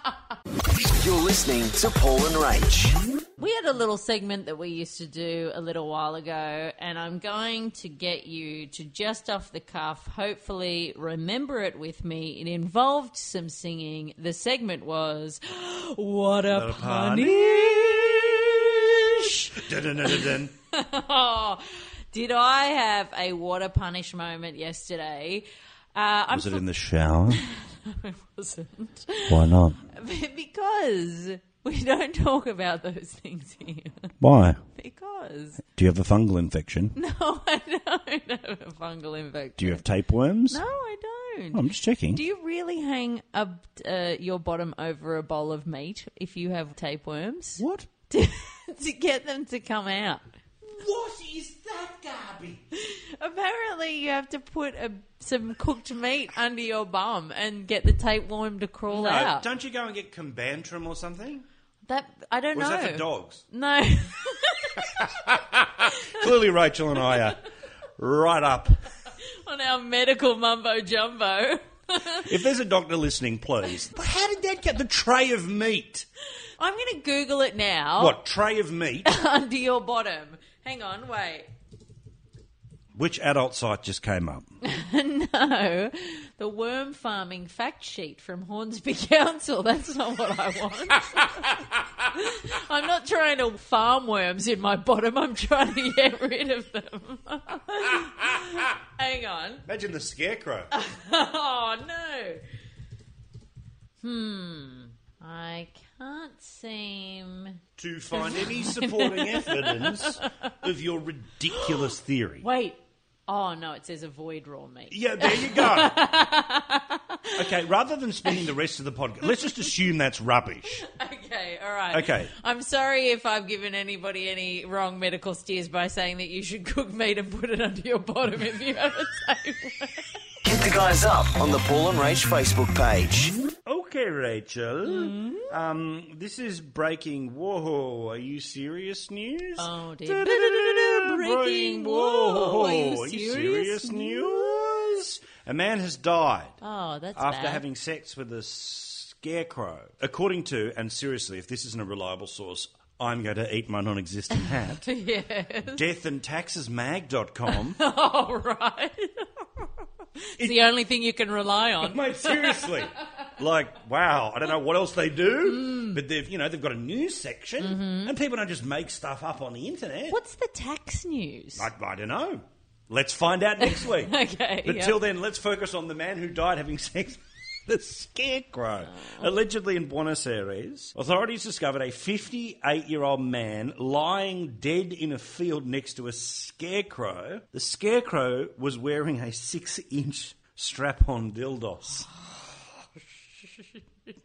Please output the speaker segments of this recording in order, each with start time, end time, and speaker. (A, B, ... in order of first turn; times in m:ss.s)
0:00.9-0:03.0 A
0:03.4-0:26.6 B
0:16.5-0:20.5 C
0:26.3-0:27.4 C
0:27.3-0:34.1 B
0:29.3-0:29.9 C
0:34.2-0:34.6 C
0:34.7-0:35.6 B
0:35.8-0:36.9 C
0:36.9-0:39.8 B
0:39.6-0:40.6 C
0:40.5-0:41.6 B
0:41.5-0:42.2 C
0:42.1-0:50.2 B
0:47.6-0:47.9 C
0:50.7-0:52.6 C
0:52.7-0:59.4 B
0:58.9-1:01.4 C
1:01.9-1:05.2 B
1:02.5-1:03.4 C
1:04.8-1:07.4 C
1:05.9-1:06.2 B
1:08.0-1:08.8 C
1:09.4-1:12.3 B
1:12.1-1:16.0 C
1:16.6-1:18.2 B
1:18.0-1:19.1 C
1:19.0-1:21.5 B
1:23.0-1:24.5 C
1:24.6-1:31.6 B
1:31.1-1:31.4 C
1:32.1-1:39.6 B
1:39.7-1:40.7 C
1:40.7-1:42.4 B
1:44.0-1:47.6 B
1:47.8-1:52.4 C
1:48.1-1:50.5 B
1:51.5-1:51.8 B
1:52.4-1:57.5 B
1:54.9-1:56.1 C
1:57.3-2:00.8 C
2:00.8-2:10.2 B
2:01.9-2:02.3 C
2:10.4-2:13.3 A
2:13.6-2:26.6 C
2:14.8-2:15.5 B
2:19.6-2:24.8 B
2:26.6-2:27.6 B
2:27.2-2:34.8 C
2:34.4-2:35.8 B
2:35.7-2:37.8 C
2:37.5-2:39.3 B
2:40.3-2:42.8 B
2:41.8-2:50.2 C
2:45.5-2:46.0 B
2:47.6-2:48.1 B
2:50.1-2:51.7 B
2:51.6-3:12.1 C
2:53.6-2:54.9 B
2:58.9-2:59.2 B